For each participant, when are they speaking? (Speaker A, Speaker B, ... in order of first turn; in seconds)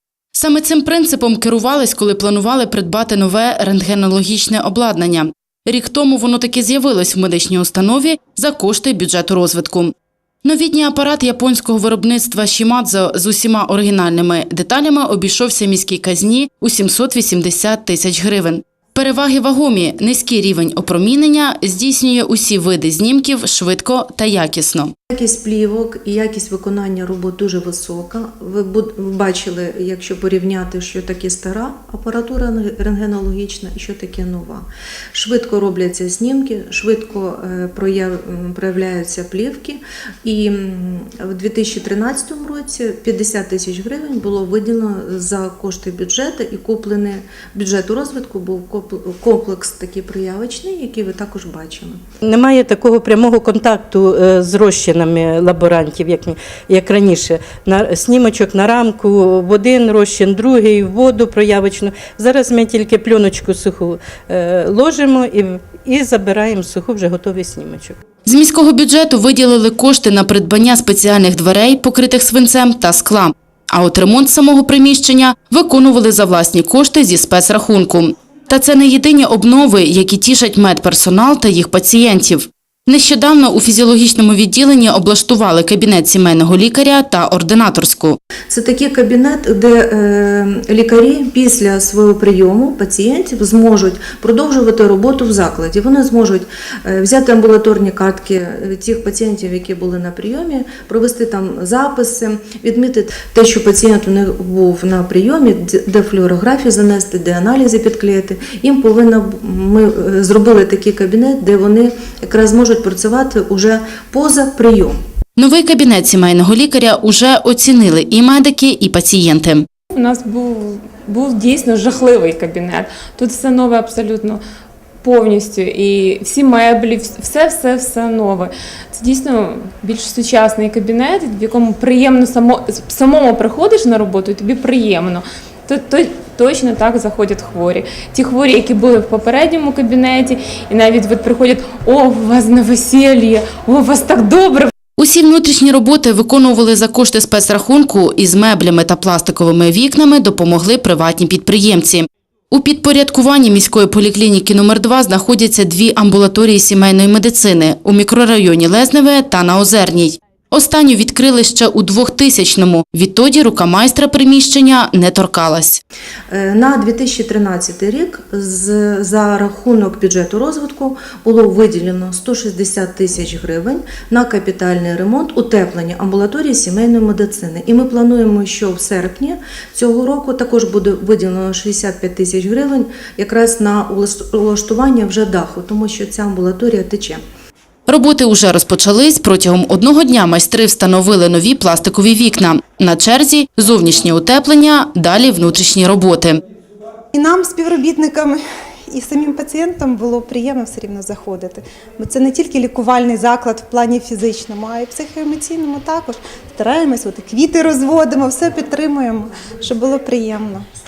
Speaker A: 0.3-24.9, 68.2-88.2, 115.4-119.7, 145.0-165.8, 187.9-196.4
Speaker B: 25.1-52.0, 88.5-114.9, 166.3-187.2
Speaker C: 52.2-68.0
Speaker D: 119.9-124.4, 125.0-144.7
Speaker E: 197.1-210.7